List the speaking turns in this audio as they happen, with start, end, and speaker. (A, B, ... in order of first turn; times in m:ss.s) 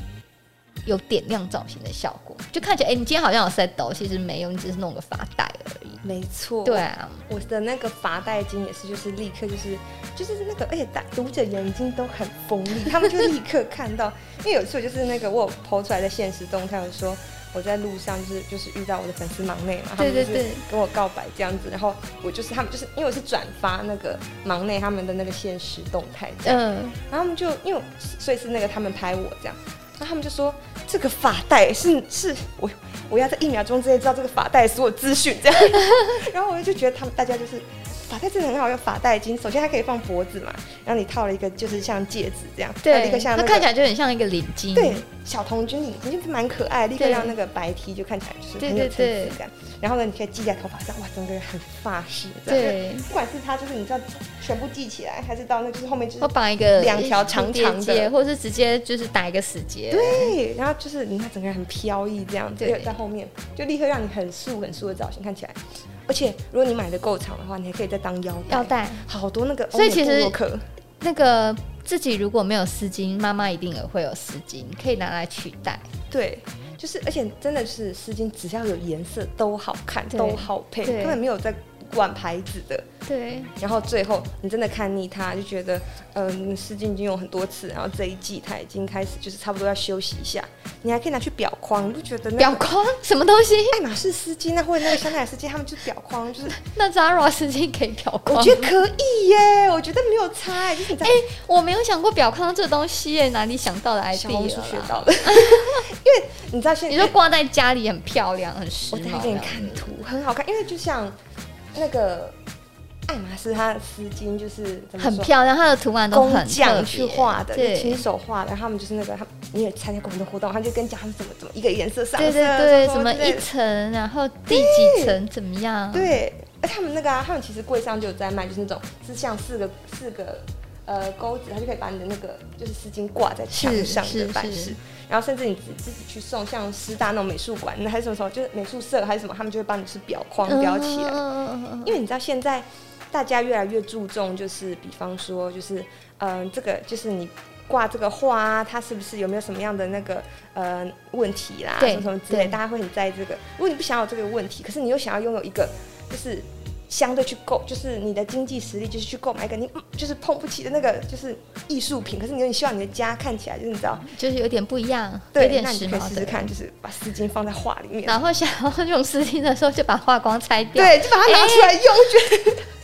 0:00.8-0:06.0 A
0:06.0-0:43.7 B
0:06.6-0:07.2 A
0:20.0-0:20.6 A
0:26.4-0:27.0 A
0:42.8-0:45.0 A
0:44.7-0:58.1 B
0:47.0-0:47.3 A
0:48.6-0:49.4 A
0:52.5-0:53.1 A
0:56.2-1:00.4 A
0:59.9-1:10.6 B
1:02.6-1:02.9 A
1:08.5-1:09.0 A
1:09.7-1:10.4 A
1:11.0-1:15.9 A
1:16.1-1:22.9 B
1:20.1-1:21.2 A
1:23.0-1:23.5 A
1:23.6-1:32.6 B
1:32.4-1:33.8 A
1:33.7-1:36.6 B
1:36.5-1:38.7 A
1:38.3-1:41.2 B
1:41.0-1:45.8 A
1:44.1-1:47.1 B
1:46.9-1:49.9 A
1:48.9-1:51.2 B
1:51.7-1:52.4 B
1:53.1-1:55.3 B
1:55.0-1:58.0 A
1:56.1-2:03.4 B
2:02.2-2:06.2 A
2:04.5-2:05.2 B
2:05.9-2:21.2 B
2:13.5-2:14.7 A
2:20.4-2:22.0 A
2:21.8-2:44.1 B
2:31.8-2:32.6 A
2:44.1-2:46.5 A
2:45.3-2:48.2 B
2:48.0-2:51.8 A
2:50.7-2:52.6 B